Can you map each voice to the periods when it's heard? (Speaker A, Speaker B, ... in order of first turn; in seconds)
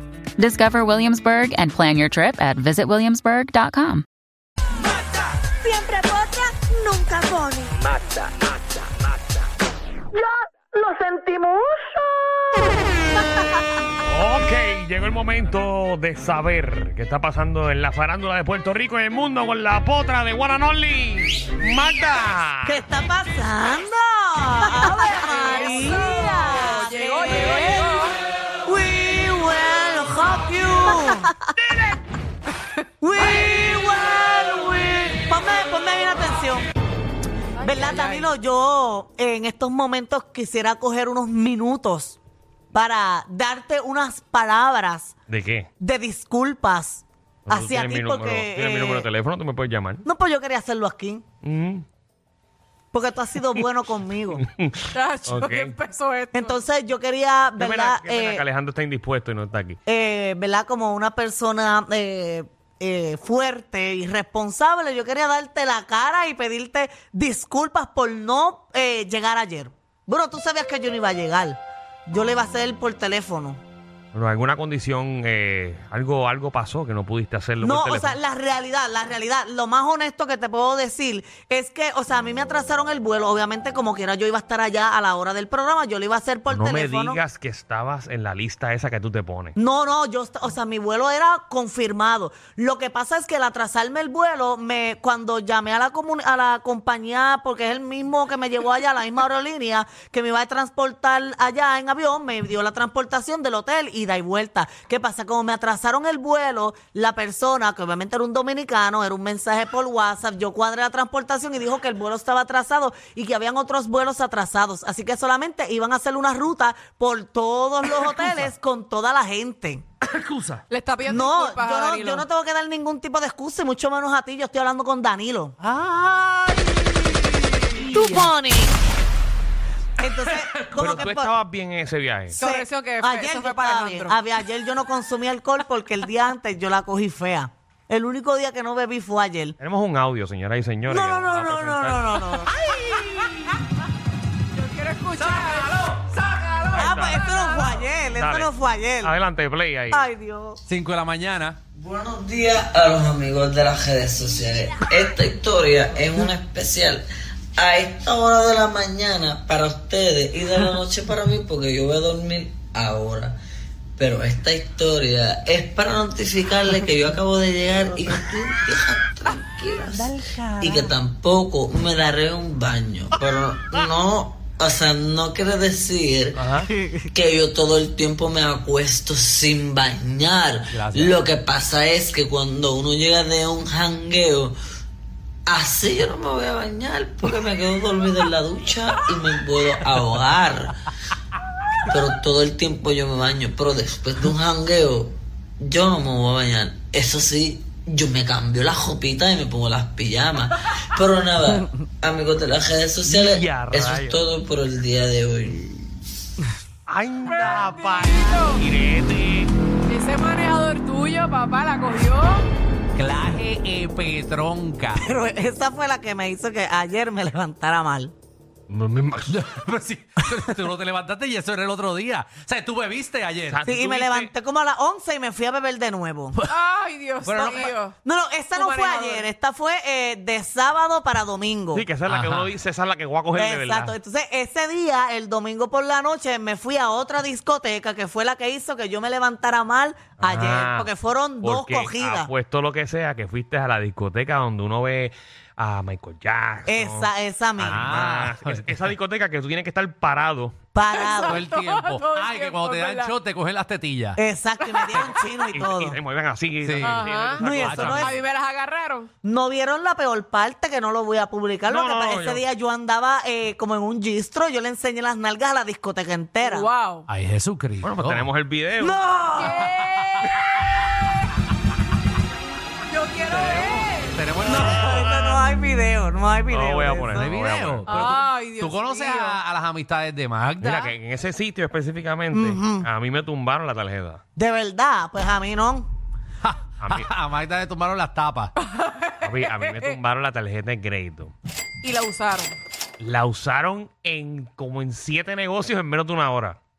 Speaker A: 0.4-4.1
Speaker B: 5.3-7.9, 10.2-12.0, 13.3-13.7, 22.6-28.0, 28.6-31.5, 33.0-36.6, 37.6-42.2, 42.7-45.1, 45.8-49.1, 50.0-51.2, 52.9-54.4, 56.3-58.4, 59.9-73.6, 77.6-87.2, 89.6-119.8, 121.1-125.6, 127.8-128.8, 130.0-131.3, 132.4-139.6, 140.9-142.7, 146.7-149.1, 149.9-150.6, 170.0-170.9, 215.0-218.1, 223.7-226.4, 227.3-231.8, 233.3-242.3, 246.7-248.0, 250.7-251.4, 254.2-256.0, 257.4-258.2, 259.2-266.7, 268.8-269.6, 274.4-277.3, 282.3-282.9, 284.4-285.9
Speaker C: 14.0-22.8, 45.3-45.7, 47.5-50.0, 51.4-51.9, 54.4-55.8, 57.6-59.8, 74.1-78.2, 86.5-89.6, 130.8-132.4, 139.6-142.2, 146.8-147.2, 148.2-148.5, 149.0-150.1, 176.4-176.7, 203.0-204.2, 206.9-209.5, 218.7-219.4, 223.5-224.3, 231.7-233.9, 240.2-240.9, 241.4-250.6, 255.5-258.2, 261.7-262.4, 267.8-269.0, 276.5-278.2, 280.6-284.2, 286.8-287.1, 289.2-291.3, 293.0-296.6
Speaker D: 24.9-28.2, 37.6-38.3, 54.9-56.6, 120.7-122.3, 132.3-134.2, 144.5-147.8, 207.3-208.6, 209.9-212.5, 226.5-227.9, 228.5-229.3, 250.9-253.1, 254.6-255.2, 256.8-259.1, 266.4-267.1, 269.4-270.3, 272.9-274.1, 277.9-279.4, 288.6-290.0, 291.8-292.6
Speaker E: 120.0-120.6, 125.6-128.3, 130.3-131.0, 145.4-146.1, 150.7-151.6, 180.7-181.2, 212.9-215.2, 219.3-223.6, 227.3-227.7, 232.1-232.6, 247.6-248.8, 251.2-254.2, 256.6-258.1, 267.1-268.3, 269.8-270.3, 273.3-275.1, 277.1-280.9, 286.4-288.5
Speaker F: 151.8-157.1, 157.6-163.4, 164.0-176.5, 177.1-184.6, 185.5-190.8, 191.9-205.8